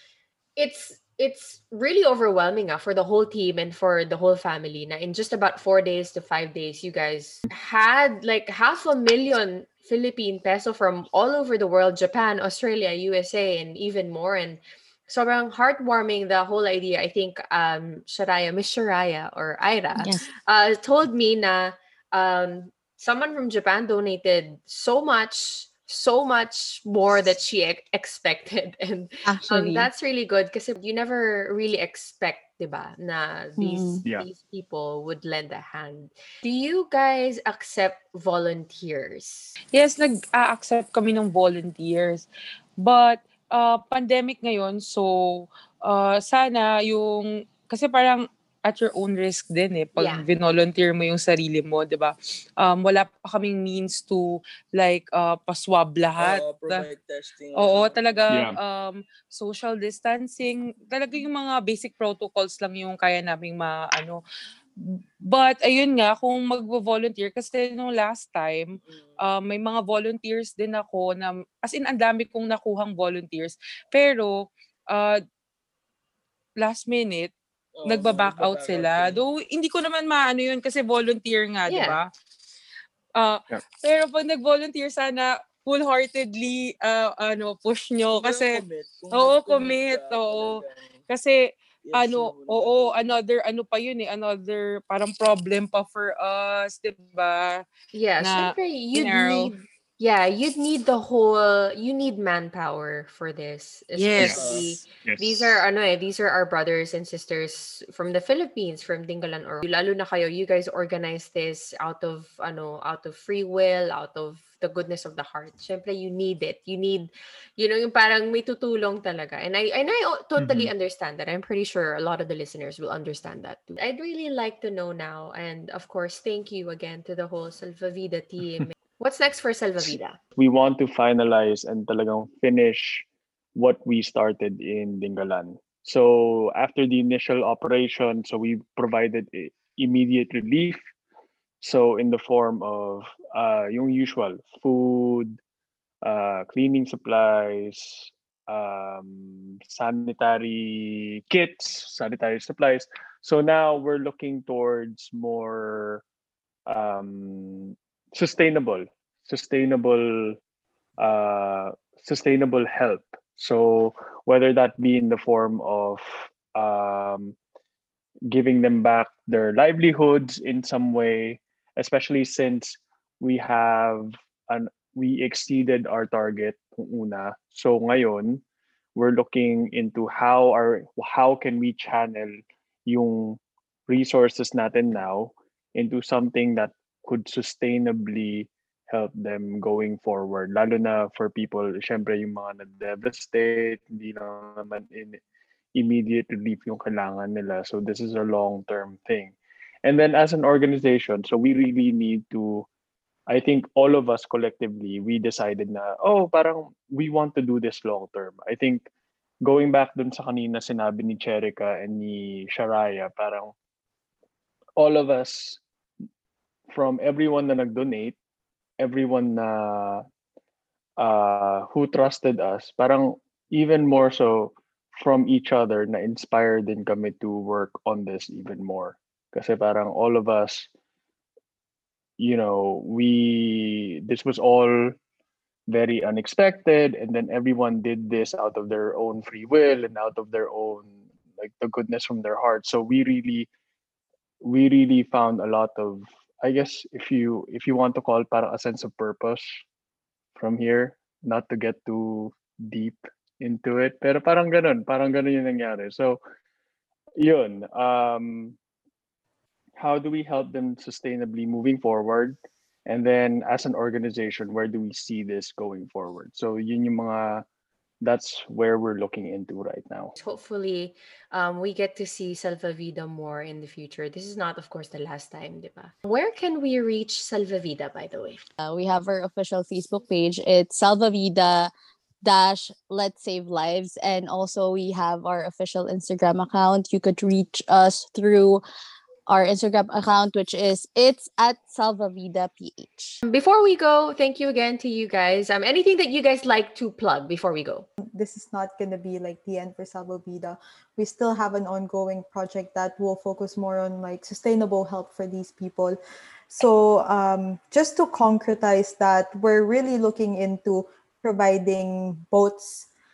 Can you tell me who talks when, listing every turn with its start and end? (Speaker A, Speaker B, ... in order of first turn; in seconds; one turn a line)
Speaker A: 0.6-39.5
Speaker B: 20.0-20.2
Speaker B: 29.2-29.9
Speaker B: 33.6-34.0
Speaker C: 39.7-42.3
Speaker C: 42.8-56.8
Speaker A: 50.0-50.2
Speaker D: 56.2-58.2
Speaker C: 57.6-64.2
Speaker E: 58.3-58.6
Speaker C: 64.8-75.2
Speaker C: 76.6-77.3
Speaker D: 77.7-79.2
Speaker C: 77.9-82.1
Speaker A: 81.7-82.0
Speaker C: 83.2-97.6
Speaker D: 88.1-91.0
Speaker D: 91.8-93.0
Speaker A: 97.9-130.2
Speaker C: 98.2-99.5
Speaker C: 104.0-104.5
Speaker D: 104.2-104.7
Speaker E: 105.0-105.6
Speaker E: 120.4-120.7
Speaker E: 129.8-140.8
Speaker E: 141.6-145.4
Speaker E: 146.0-156.0
Speaker E: 156.7-160.4
Speaker E: 161.0-167.4
Speaker E: 168.3-178.4
Speaker E: 178.9-182.3
Speaker E: 182.9-195.2
Speaker E: 195.7-202.7
Speaker E: 203.3-208.9
Speaker E: 209.4-213.5
Speaker E: 214.8-215.6
Speaker E: 216.7-218.2
Speaker E: 218.8-220.0
Speaker E: 221.0-230.7
Speaker E: 232.2-234.9
Speaker E: 235.7-243.5
Speaker E: 244.4-249.4
Speaker E: 250.3-256.2
Speaker E: 257.2-258.6
Speaker E: 259.8-267.4
Speaker E: 268.0-270.1
Speaker A: 270.2-278.4
Speaker B: 278.6-281.7
Speaker B: 282.2-288.6
Speaker B: 289.3-293.2
Speaker A: 293.2-297.9
Speaker F: 298.1-306.0
Speaker F: 306.5-312.9